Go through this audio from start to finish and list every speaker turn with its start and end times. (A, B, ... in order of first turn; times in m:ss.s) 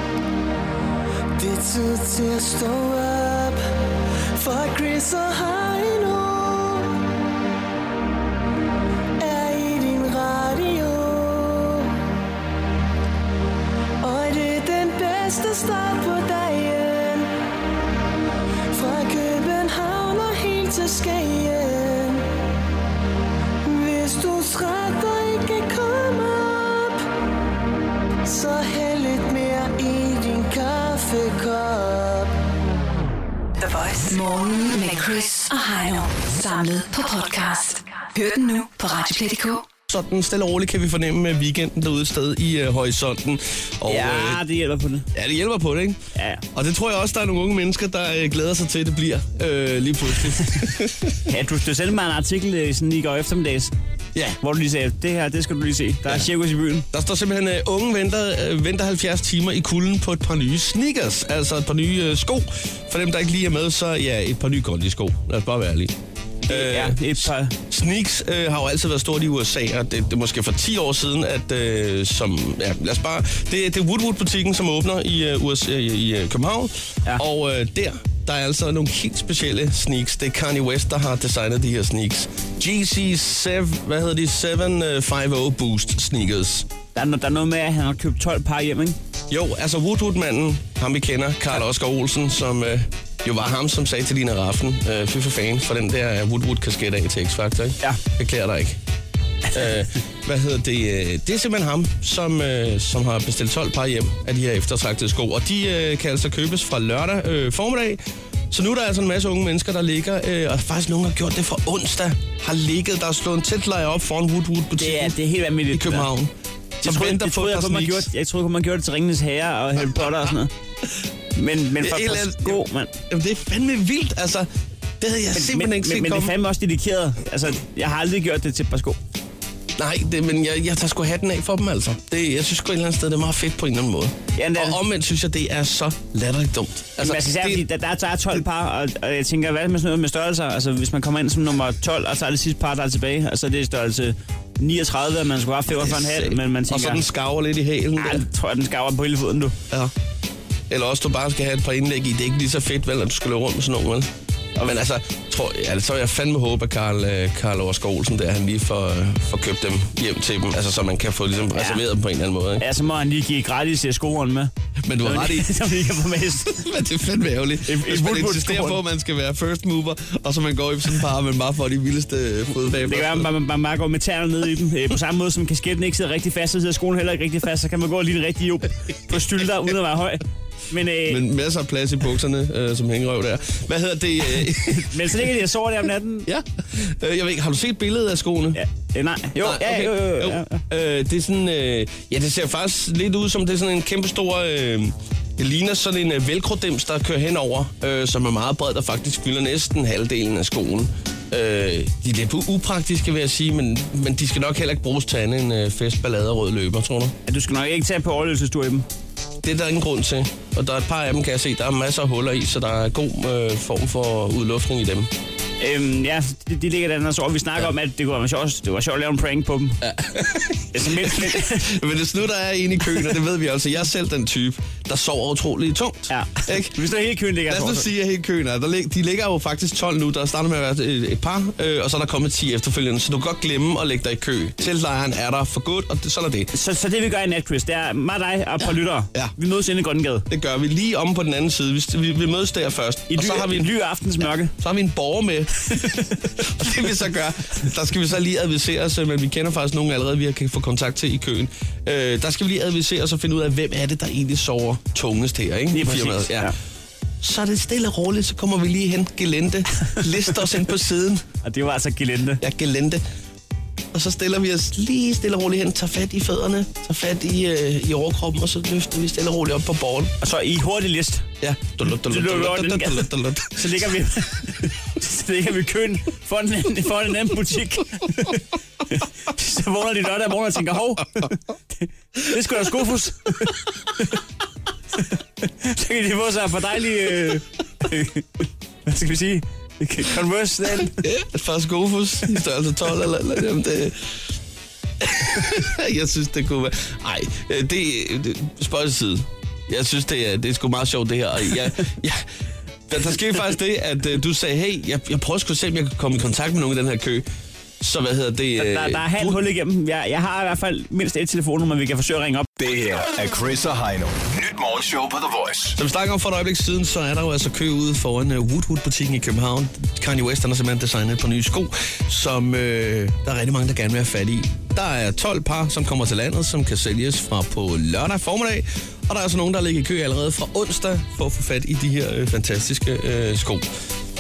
0:01.4-0:03.6 A
0:04.4-0:07.0 A
0:09.2-0:12.0 A
0:14.0-0:17.3 A
0:18.7-0:22.3 A
0:23.6-0:27.1 A
0:28.2-0:32.4 A
0:33.6-0:39.7 B
0:39.9-0:44.4 C
0:43.9-0:45.1 D
0:45.1-0:46.0 C
0:46.2-0:46.4 D
0:46.5-0:51.2 C
0:51.3-0:53.7 D
0:54.2-0:54.4 C
0:54.4-0:56.9 D
0:56.9-1:05.9 C
1:06.5-1:07.5 D
1:06.5-1:26.7 C
1:27.0-1:29.0 D
1:29.3-1:38.8 C
1:39.5-1:48.0 C
1:48.5-1:55.2 C
1:54.8-1:56.1 D
1:55.7-1:56.3 C
1:56.8-1:58.1 C
1:56.8-2:00.5 D
2:01.4-2:02.9 D
2:01.8-2:04.5 C
2:05.0-2:06.3 C
2:05.3-2:09.0 D
2:09.8-2:17.6 C
2:14.4-2:14.8 D
2:17.0-2:27.0 D
2:25.8-2:28.2 C
2:28.0-2:29.6 D
2:30.7-2:34.1 C
2:34.6-2:42.6 C
2:41.6-2:41.8 D
2:42.6-2:44.5 D
2:44.8-2:45.8 C
2:45.0-2:46.6 D
2:46.5-2:53.3 C
2:47.7-2:48.8 D
2:52.8-3:01.2 D
3:01.1-3:05.0 C
3:04.7-3:06.3 D
3:06.3-3:08.6 C
3:08.6-3:10.6 D
3:09.4-3:27.2 C
3:27.3-3:28.9 D
3:29.4-3:35.1 C
3:35.6-3:39.8 D
3:39.8-3:46.8 C
3:40.7-3:41.7 D
3:46.1-3:47.9 D
3:47.5-3:56.5 C
3:56.5-4:00.3 D
4:00.3-4:03.7 C
4:03.1-4:04.5 D
4:04.6-4:16.5 C
4:15.7-4:16.5 D
4:17.2-4:21.2 C
4:21.4-4:22.4 D
4:22.4-4:23.0 C
4:23.9-4:30.1 C
4:30.2-4:31.3 D
4:31.4-4:33.6 C
4:32.1-4:44.1 D
4:45.5-4:51.0 D
4:51.0-4:54.2 C
4:55.0-5:02.2 C
5:02.9-5:07.3 C
5:07.8-5:09.4 C
5:08.6-5:12.5 D
5:12.6-5:15.8 E
5:15.8-5:33.7 C